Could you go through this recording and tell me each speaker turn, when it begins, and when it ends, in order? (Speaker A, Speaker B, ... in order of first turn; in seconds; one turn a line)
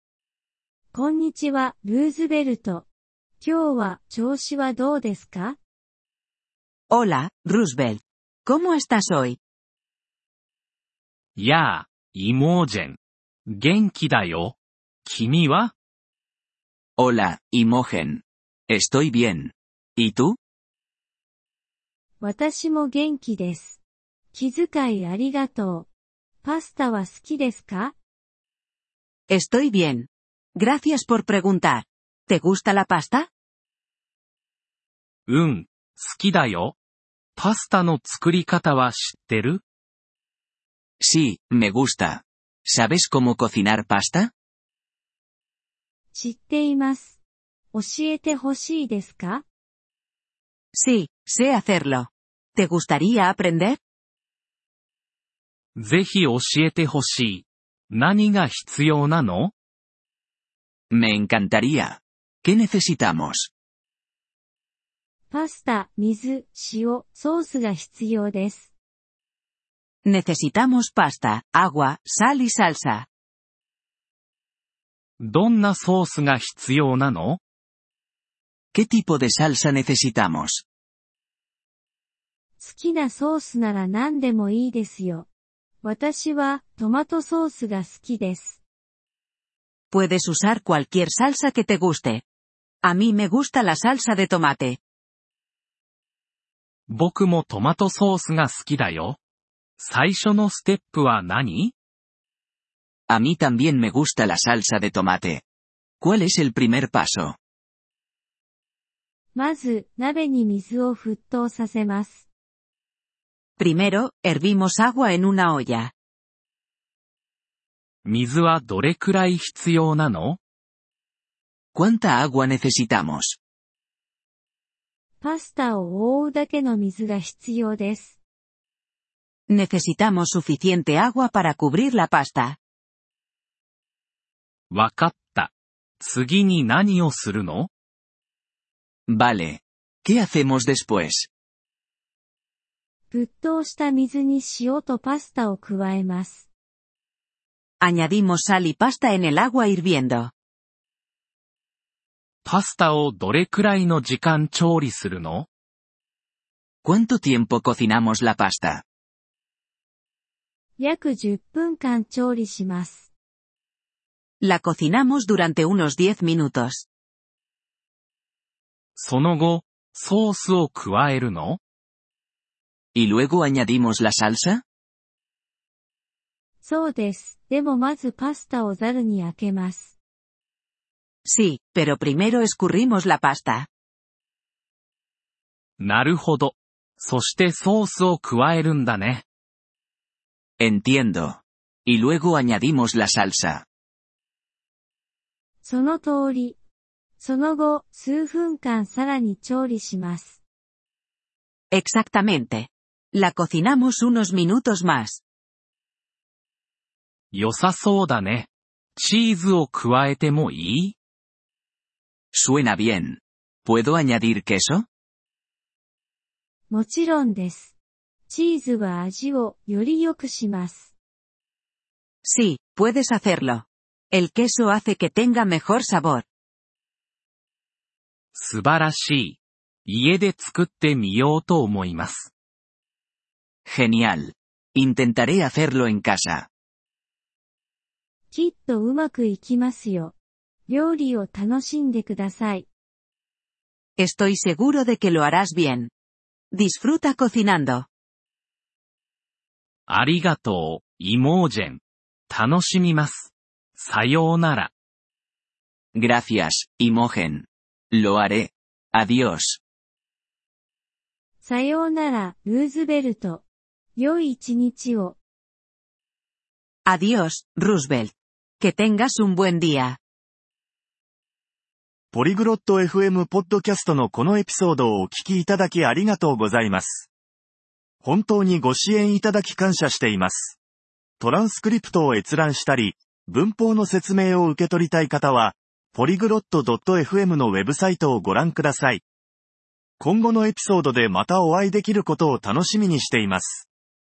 Speaker A: 0.9-2.9
Speaker A: 3.4-5.6
Speaker B: 6.9-9.4
Speaker C: 11.3-15.7
Speaker B: 17.0-18.1
Speaker D: 17.1-18.2
Speaker B: 18.7-19.3
Speaker D: 18.9-19.5
Speaker B: 20.0-20.3
Speaker A: 22.2-23.8
Speaker A: 24.3-25.9
Speaker A: 26.4-27.9
Speaker B: 29.3-33.3
Speaker C: 35.3-36.7
Speaker C: 37.4-39.6
Speaker D: 41.0-41.9
Speaker B: 41.8-44.1
Speaker D: 42.9-44.3
Speaker A: 46.1-47.2
Speaker A: 47.7-49.4
Speaker B: 50.7-53.8
Speaker C: 55.8-59.5
Speaker D: 60.9-62.0
Speaker B: 61.2-61.5
Speaker D: 62.6-63.5
Speaker A: 65.3-68.7
Speaker B: 70.0-73.1
Speaker C: 75.2-77.4
Speaker B: 78.7-80.6
Speaker A: 82.6-85.3
Speaker A: 85.8-88.6
Speaker B: 89.9-92.2
Speaker B: 92.8-94.8
Speaker C: 96.9-99.2
Speaker C: 99.8-101.7
Speaker D: 103.1-105.4
Speaker D: 106.0-107.4
Speaker B: 106.0-106.4
Speaker A: 109.3-112.3
Speaker B: 113.6-115.9
Speaker C: 118.0-120.4
Speaker B: 121.7-123.3
Speaker A: 125.2-128.2
Speaker B: 129.5-132.6
Speaker C: 134.7-137.7
Speaker B: 139.1-139.4
Speaker D: 139.2-139.6
Speaker B: 140.0-141.0
Speaker D: 140.4-141.3
Speaker A: 143.1-146.5
Speaker B: 147.8-150.3
Speaker C: 152.4-155.5
Speaker B: 156.8-158.8
Speaker D: 157.7-158.8
Speaker A: 160.8-163.1
Speaker B: 164.4-166.8
Speaker C: 168.9-171.6
Speaker D: 172.9-174.6
Speaker A: 176.6-179.9
Speaker B: 181.2-183.7
Speaker C: 185.8-189.2
Speaker D: 190.6-191.4
Speaker D: 192.0-193.6
Speaker A: 195.6-196.6
Speaker A: 197.2-200.4
Speaker B: 201.7-205.2
Speaker C: 207.3-210.9
Speaker D: 212.4-213.2
Speaker B: 212.5-213.1
Speaker D: 213.7-214.8
Speaker A: 216.7-217.8
Speaker A: 218.3-220.9
Speaker B: 222.2-226.2
Speaker C: 228.3-232.3
Speaker B: 233.7-234.2
Speaker B: 234.8-235.0
Speaker D: 234.9-236.5
Speaker A: 238.3-240.1
Speaker A: 240.7-242.7
Speaker B: 244.0-245.9
Speaker B: 246.5-247.9
Speaker C: 249.9-254.7
Speaker D: 255.9-257.5
Speaker D: 258.0-258.5
Speaker D: 259.0-259.6
Speaker A: 261.4-263.4
Speaker A: 263.9-265.2
Speaker B: 266.9-270.0
Speaker E: 272.1-277.1
Speaker E: 278.0-280.6
Speaker E: 281.2-289.0
Speaker E: 290.0-293.7